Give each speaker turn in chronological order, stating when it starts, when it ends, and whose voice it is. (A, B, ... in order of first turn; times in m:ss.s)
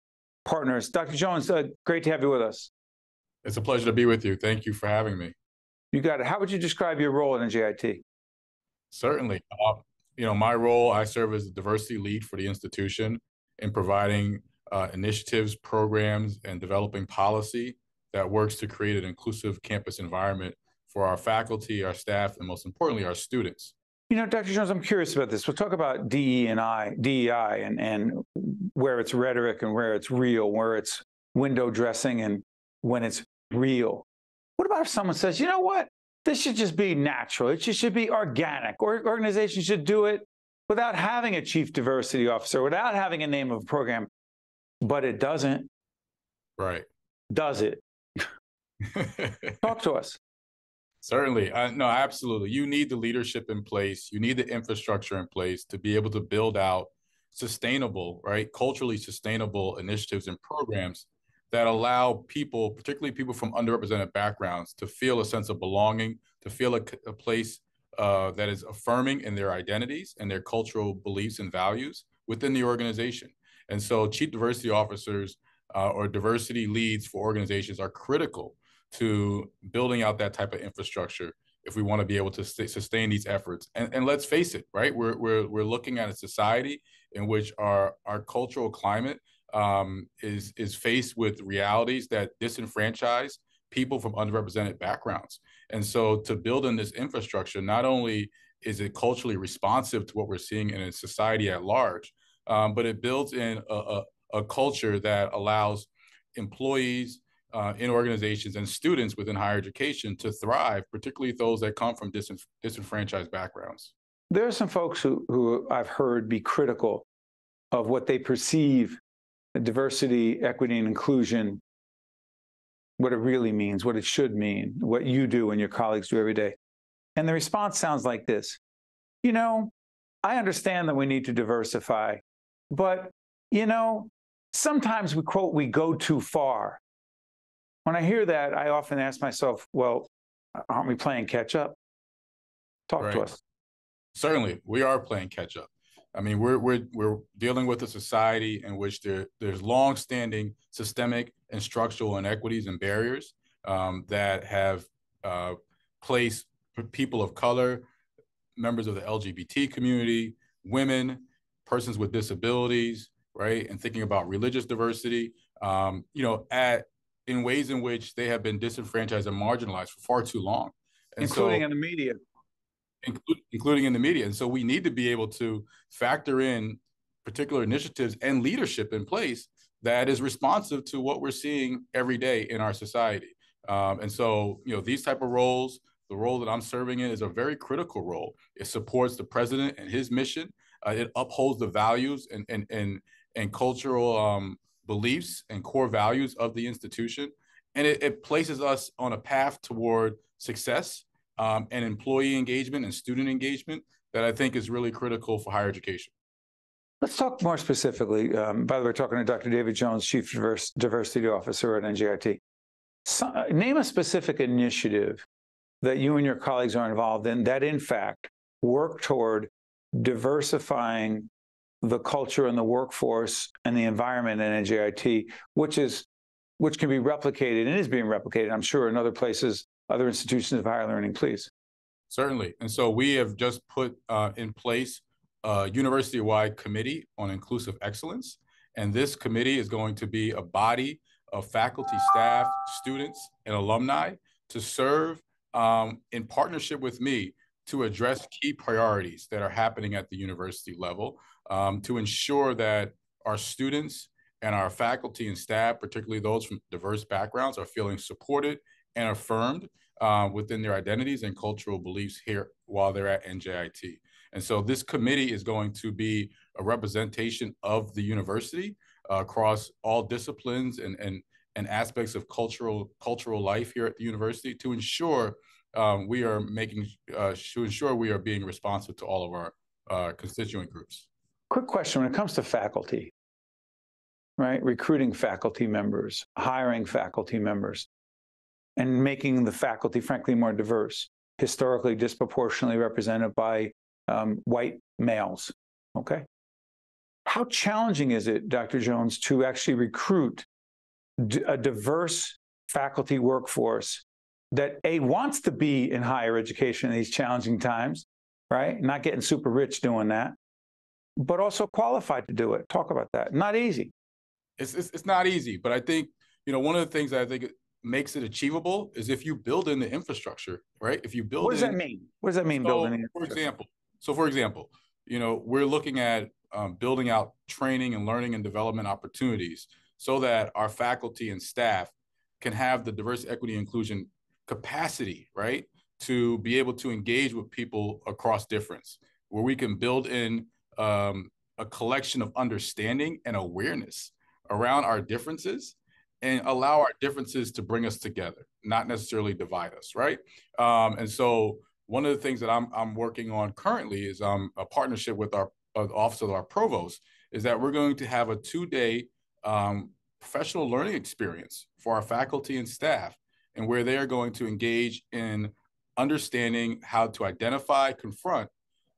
0:00.5-0:02.7 A
0:03.4-0:05.4 B
0:05.9-0:08.0 A
0:08.9-0:23.7 B
0:24.1-0:34.0 A
0:34.6-0:44.1 A
0:44.8-0:45.7 A
0:46.6-0:46.9 B
0:47.3-0:47.8 A
0:48.9-0:49.7 B
0:49.6-0:50.2 A
0:51.0-1:53.9 B
1:54.3-1:57.1 A
1:57.7-1:59.0 A
1:59.6-2:01.6 A
2:03.0-2:06.6 A
2:07.2-2:08.6 A
2:09.2-2:09.7 A
2:10.2-2:16.8 A
2:17.8-2:21.8 A
2:22.9-2:23.4 A
2:23.0-2:23.3 B
2:24.2-2:37.9 B
2:38.6-2:51.7 B
2:51.2-2:52.2 A
2:53.0-3:26.1 B
3:27.0-3:32.4 A
3:33.1-3:35.2 A
3:35.8-3:41.3 A
3:41.8-3:46.1 A
3:46.6-3:51.5 A
3:52.1-4:41.1 B
4:41.5-4:43.1 A
4:44.4-4:47.9 A
4:48.8-4:56.2 A
4:57.3-5:00.5 A
5:01.2-5:10.4 A
5:11.2-5:13.9 A
5:14.6-5:21.8 B
5:21.4-5:23.4 A
5:22.6-6:08.5 B